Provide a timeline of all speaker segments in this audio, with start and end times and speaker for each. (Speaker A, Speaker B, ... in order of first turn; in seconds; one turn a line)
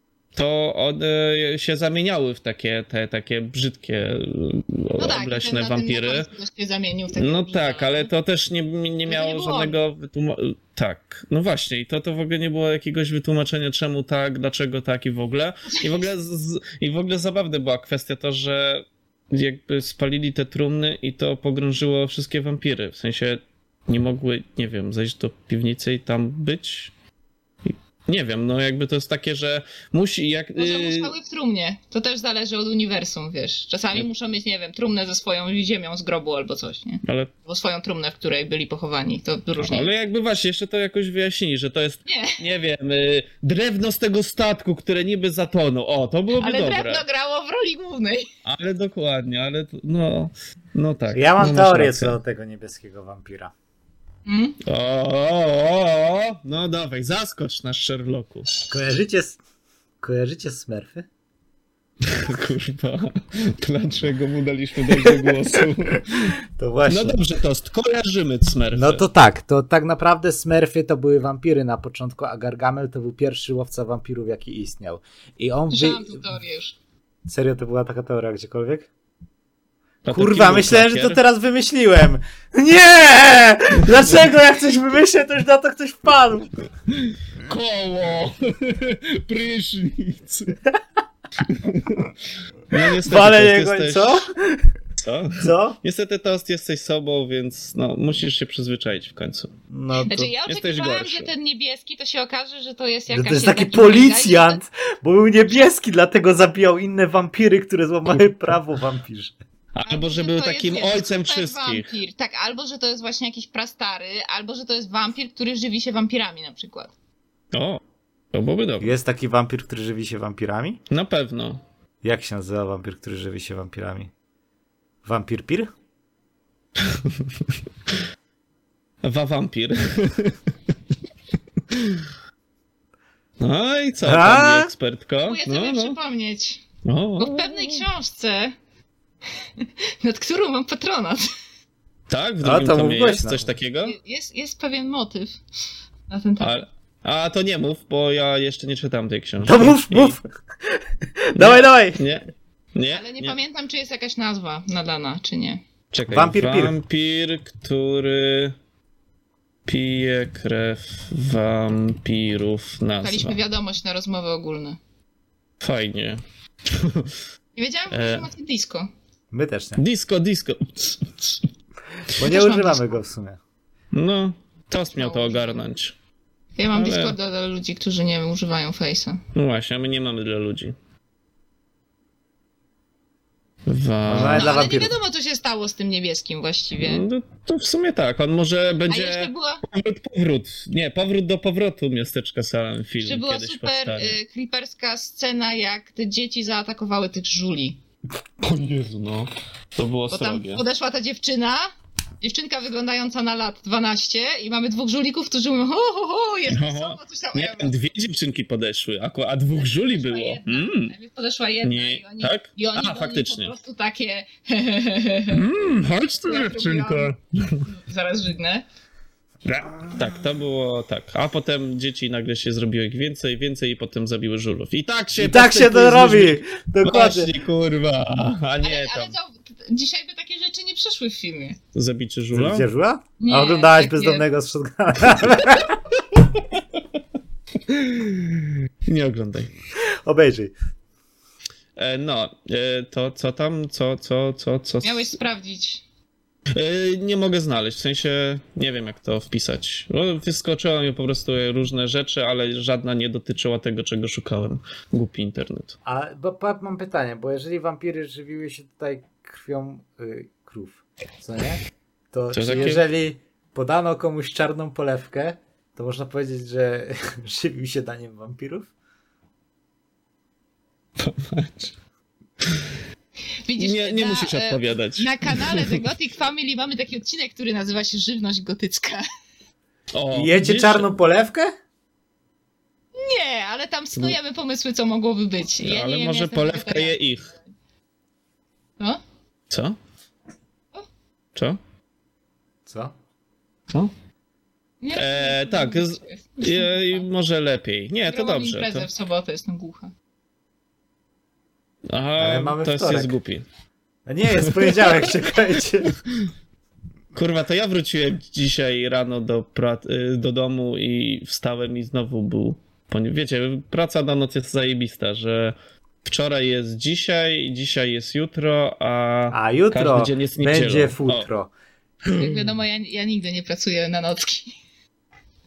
Speaker A: 0.3-6.3
Speaker B: 5.0-8.1
Speaker A: 7.1-26.9
Speaker B: 9.1-9.7
Speaker A: 27.6-31.1
Speaker B: 30.6-39.9
Speaker A: 37.0-37.3
Speaker A: 39.6-47.0
Speaker B: 42.0-42.4
Speaker B: 46.4-48.3
Speaker A: 48.4-52.1
Speaker C: 51.1-53.5
Speaker B: 54.2-54.6
Speaker A: 54.6-58.6
Speaker C: 58.7-59.4
Speaker C: 60.0-61.1
Speaker A: 62.0-69.0
Speaker C: 66.5-67.2
Speaker C: 68.7-76.2
Speaker B: 75.7-76.8
Speaker C: 77.2-78.9
Speaker A: 80.0-81.2
Speaker C: 80.1-86.5
Speaker A: 86.9-90.6
Speaker A: 91.4-92.1
Speaker A: 92.7-94.2
Speaker C: 92.7-94.7
Speaker A: 95.0-99.5
Speaker C: 95.4-95.8
Speaker C: 99.7-100.3
Speaker B: 100.1-104.6
Speaker A: 100.5-101.3
Speaker C: 103.1-109.3
Speaker A: 109.7-111.9
Speaker B: 109.8-116.9
Speaker A: 117.5-117.8
Speaker A: 118.3-118.9
Speaker C: 118.8-120.8
Speaker A: 120.9-121.6
Speaker C: 122.0-124.1
Speaker C: 125.0-125.7
Speaker A: 129.0-130.4
Speaker A: 131.7-132.1
Speaker A: 133.4-136.0
Speaker C: 134.0-134.7
Speaker B: 135.2-136.6
Speaker A: 136.8-137.8
Speaker B: 137.2-138.5
Speaker B: 139.6-141.3
Speaker A: 142.1-143.9
Speaker C: 142.4-143.5
Speaker B: 143.8-145.4
Speaker B: 146.1-146.6
Speaker A: 146.4-150.2
Speaker C: 149.4-152.0
Speaker A: 151.3-153.3
Speaker B: 152.9-155.6
Speaker A: 155.9-158.5
Speaker C: 156.1-156.7
Speaker A: 159.7-163.4
Speaker B: 163.0-164.8
Speaker A: 165.6-167.1
Speaker B: 167.6-168.9
Speaker A: 167.9-168.3
Speaker C: 169.3-169.8
Speaker A: 169.8-171.4
Speaker C: 172.2-173.4
Speaker B: 172.2-173.0
Speaker A: 173.9-175.9
Speaker B: 174.9-175.6
Speaker B: 176.6-179.2
Speaker A: 176.7-177.2
Speaker A: 179.3-180.7
Speaker A: 183.7-184.6
Speaker C: 184.1-184.9
Speaker B: 184.3-187.0
Speaker A: 186.8-194.2
Speaker B: 188.9-189.6
Speaker B: 193.0-197.8
Speaker A: 198.4-200.6
Speaker B: 200.1-207.7
Speaker A: 206.5-210.9
Speaker B: 209.6-215.4
Speaker A: 211.6-213.5
Speaker A: 215.3-217.7
Speaker B: 216.2-217.1
Speaker B: 217.6-218.6
Speaker A: 219.4-229.1
Speaker C: 225.1-227.3
Speaker B: 228.6-231.6
Speaker A: 231.7-232.7
Speaker C: 232.3-235.8
Speaker B: 233.2-234.2
Speaker A: 237.7-239.5
Speaker C: 240.0-240.5
Speaker A: 241.8-245.1
Speaker B: 244.8-245.8
Speaker A: 246.5-255.8
Speaker C: 255.8-268.7
Speaker A: 262.3-262.8
Speaker A: 271.0-271.7
Speaker B: 273.4-279.0
Speaker A: 273.6-275.8
Speaker A: 279.9-280.9
Speaker C: 280.1-281.5
Speaker B: 282.9-287.0
Speaker A: 285.6-287.3
Speaker A: 289.5-289.8
Speaker C: 292.6-292.9
Speaker B: 294.8-297.0
Speaker A: 294.9-298.9
Speaker B: 298.1-299.9
Speaker A: 301.9-303.4
Speaker C: 302.2-303.1
Speaker C: 304.1-305.9
Speaker A: 304.6-305.1
Speaker A: 307.1-321.3
Speaker C: 319.3-321.5
Speaker B: 322.1-324.6